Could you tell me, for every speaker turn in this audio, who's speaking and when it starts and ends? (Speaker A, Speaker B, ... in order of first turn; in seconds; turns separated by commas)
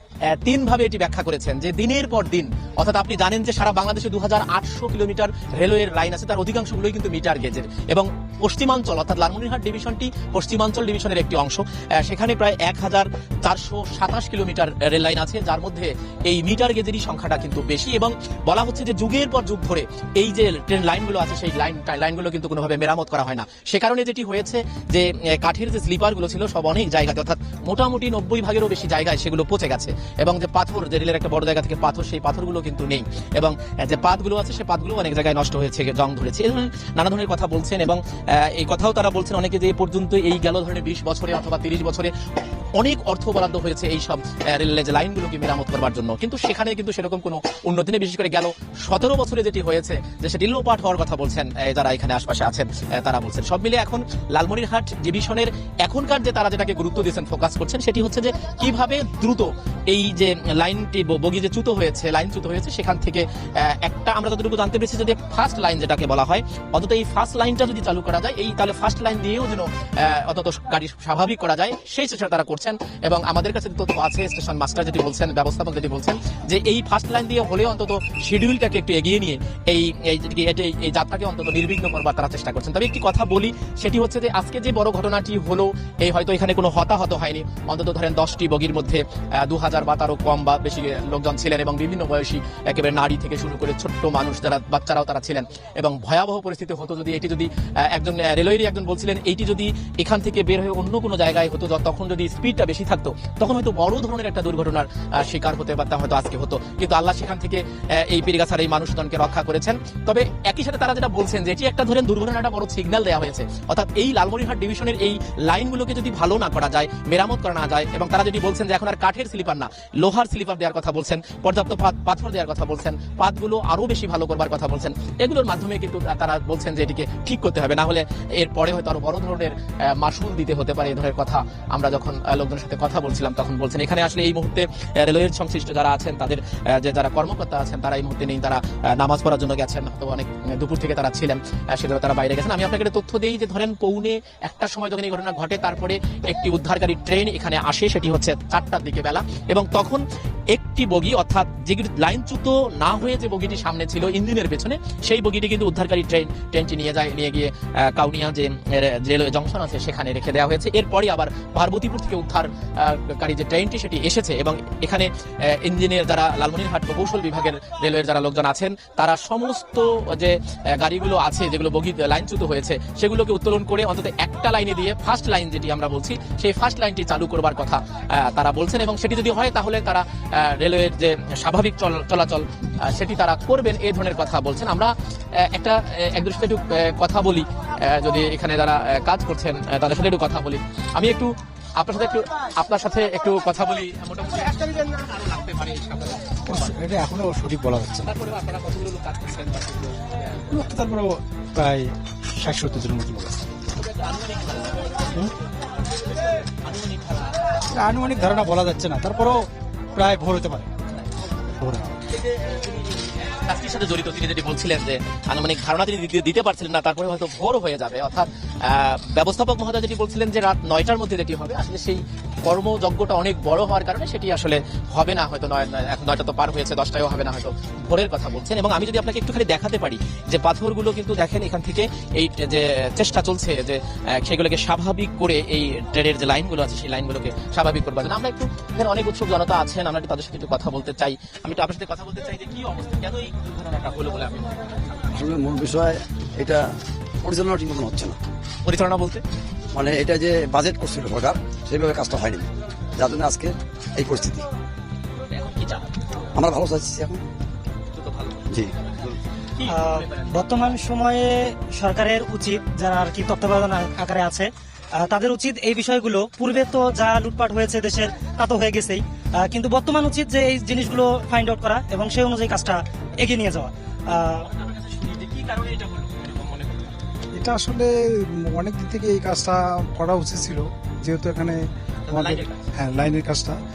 Speaker A: 0.2-42.1, Speaker A: 42.8-196.7, Speaker B: 196.5-198.1, Speaker A: 198.0-200.5, Speaker B: 200.5-203.4, Speaker A: 203.7-204.9, Speaker A: 206.6-207.4, Speaker B: 207.7-210.7, Speaker A: 212.2-244.5, Speaker C: 245.1-246.7, Speaker C: 247.2-248.2, Speaker A: 248.6-249.2, Speaker C: 249.7-254.4, Speaker A: 255.3-255.9, Speaker C: 256.4-257.2, Speaker A: 257.9-260.6, Speaker D: 259.7-274.4, Speaker A: 274.3-276.9, Speaker E: 277.4-283.6, Speaker A: 282.1-282.6